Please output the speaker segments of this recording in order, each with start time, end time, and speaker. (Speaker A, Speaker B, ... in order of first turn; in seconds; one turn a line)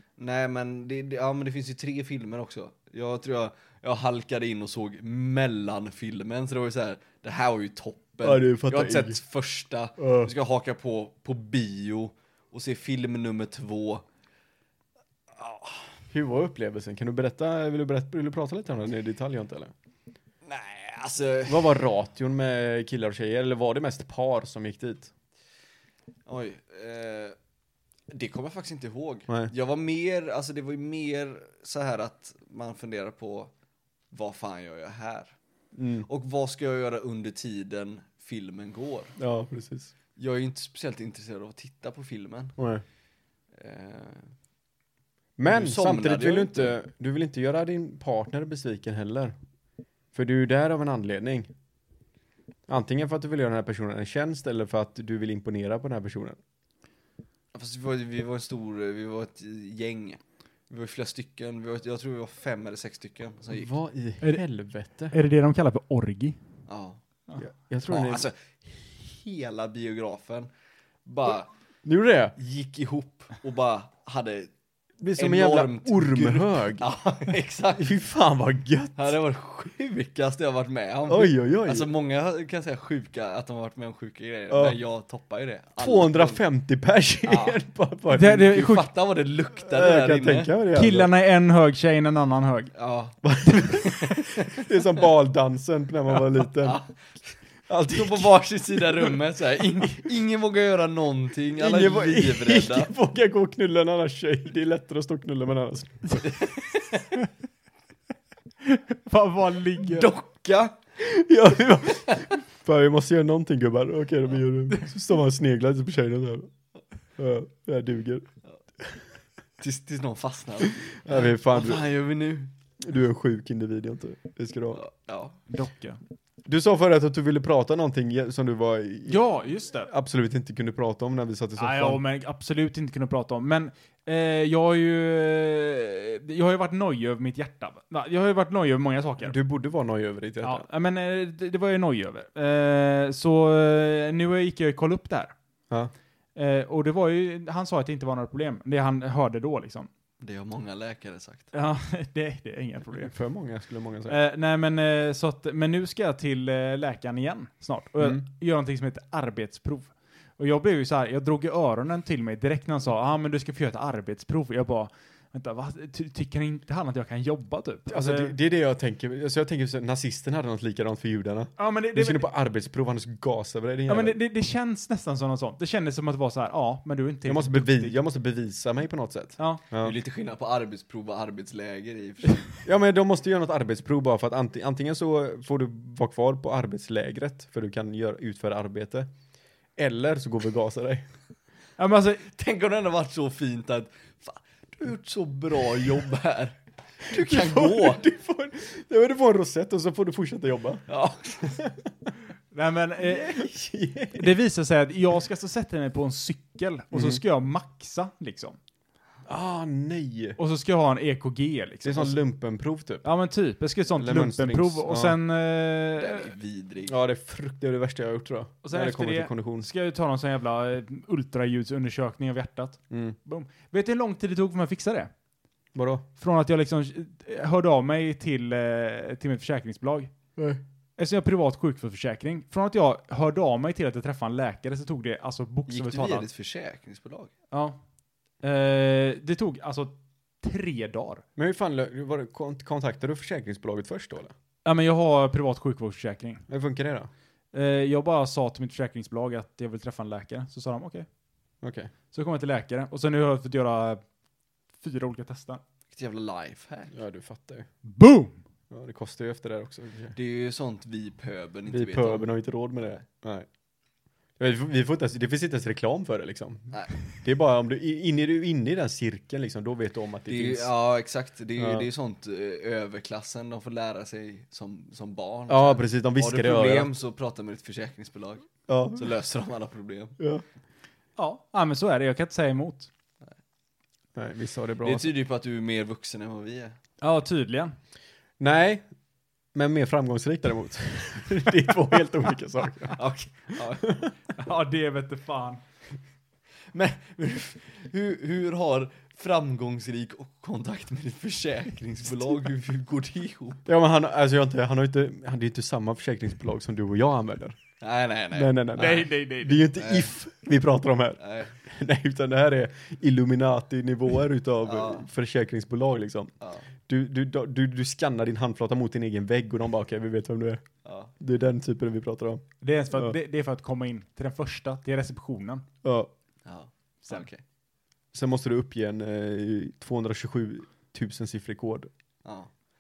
Speaker A: 0.2-14.0
Speaker B: 8.2-9.2
Speaker B: 10.0-10.3
Speaker A: 15.4-15.9
Speaker B: 16.1-19.7
Speaker A: 20.4-21.8
Speaker B: 21.5-25.1
Speaker A: 26.3-27.4
Speaker A: 28.1-33.5
Speaker A: 34.1-35.4
Speaker B: 35.8-36.1
Speaker A: 36.1-39.1
Speaker B: 39.2-39.9
Speaker A: 40.2-42.5
Speaker B: 42.6-42.8
Speaker A: 43.5-44.3
Speaker B: 45.4-49.3
Speaker A: 45.5-46.8
Speaker B: 50.1-51.5
Speaker B: 52.7-56.4
Speaker A: 57.5-63.7
Speaker B: 63.5-65.2
Speaker C: 65.1-66.4
Speaker A: 66.7-67.0
Speaker B: 67.4-68.3
Speaker A: 67.9-70.5
Speaker A: 71.1-71.5
Speaker B: 71.8-72.3
Speaker A: 72.4-74.5
Speaker B: 75.0-76.9
Speaker A: 75.2-77.9
Speaker B: 77.8-79.2
Speaker A: 79.0-86.4
Speaker B: 81.1-81.9
Speaker B: 84.5-84.8
Speaker B: 85.8-88.5
Speaker A: 87.3-87.6
Speaker C: 88.1-88.9
Speaker A: 88.4-90.5
Speaker B: 89.7-91.1
Speaker C: 90.7-92.7
Speaker A: 92.8-94.7
Speaker B: 93.2-96.8
Speaker A: 96.6-96.9
Speaker B: 97.7-99.2
Speaker A: 97.9-102.9
Speaker B: 101.6-106.4
Speaker A: 106.3-107.0
Speaker C: 108.6-110.1
Speaker A: 109.8-110.8
Speaker B: 111.0-116.5
Speaker B: 117.2-118.3
Speaker A: 119.6-122.5
Speaker B: 121.0-121.8
Speaker B: 122.8-124.8
Speaker A: 124.8-125.4
Speaker C: 125.5-126.0
Speaker B: 126.5-129.2
Speaker C: 129.1-129.9
Speaker B: 129.9-132.0
Speaker C: 131.6-139.4
Speaker B: 139.2-140.7
Speaker C: 140.4-145.3
Speaker C: 146.3-149.9
Speaker A: 150.2-151.5
Speaker C: 151.5-153.1
Speaker B: 152.9-154.2
Speaker C: 154.1-168.3
Speaker B: 158.0-158.2
Speaker B: 167.9-174.2
Speaker C: 171.6-172.3
Speaker C: 173.9-178.0
Speaker B: 177.3-179.9
Speaker A: 179.8-182.6
Speaker B: 182.7-189.1
Speaker B: 189.8-191.1
Speaker C: 191.8-192.3
Speaker A: 192.3-198.0
Speaker B: 197.1-200.8
Speaker A: 200.9-201.6
Speaker C: 202.5-203.5
Speaker B: 203.3-204.3
Speaker C: 204.1-208.6
Speaker B: 206.9-207.2
Speaker B: 209.3-210.4
Speaker C: 210.4-212.2
Speaker B: 211.8-213.1
Speaker C: 213.0-216.3
Speaker B: 214.0-215.2
Speaker A: 216.0-216.9
Speaker B: 216.9-219.7
Speaker C: 218.6-225.1
Speaker B: 222.9-223.2
Speaker B: 225.8-226.1
Speaker C: 226.2-230.1
Speaker B: 230.4-230.6
Speaker C: 231.0-236.3
Speaker A: 235.7-237.3
Speaker C: 237.5-237.8
Speaker C: 238.4-241.2
Speaker B: 241.4-244.3
Speaker C: 244.7-246.4
Speaker B: 246.5-247.1
Speaker C: 247.5-251.1
Speaker B: 251.6-251.9
Speaker C: 252.1-254.0
Speaker C: 254.8-255.6
Speaker A: 255.9-256.9
Speaker B: 256.9-257.7
Speaker C: 257.9-258.4
Speaker B: 258.7-260.1
Speaker A: 260.1-263.0
Speaker B: 261.7-263.5
Speaker B: 264.4-270.7
Speaker A: 270.3-280.2
Speaker B: 271.6-271.9
Speaker B: 275.5-276.9
Speaker B: 278.7-279.1
Speaker B: 280.2-280.4
Speaker C: 281.2-282.9
Speaker B: 284.2-285.1
Speaker A: 284.8-286.8
Speaker C: 287.0-287.8
Speaker B: 288.4-288.9
Speaker B: 289.5-293.0
Speaker A: 293.0-294.0
Speaker B: 293.8-294.1
Speaker C: 294.4-295.6
Speaker A: 296.7-303.7
Speaker B: 303.7-307.6
Speaker A: 307.8-309.1
Speaker B: 308.3-316.3
Speaker C: 308.8-309.7
Speaker A: 309.8-310.1
Speaker A: 311.2-311.6
Speaker A: 314.6-315.1
Speaker B: 316.9-323.1
Speaker A: 320.9-321.1
Speaker C: 322.6-325.7
Speaker B: 325.8-326.1
Speaker A: 326.5-327.4
Speaker B: 328.1-331.9
Speaker A: 332.2-332.5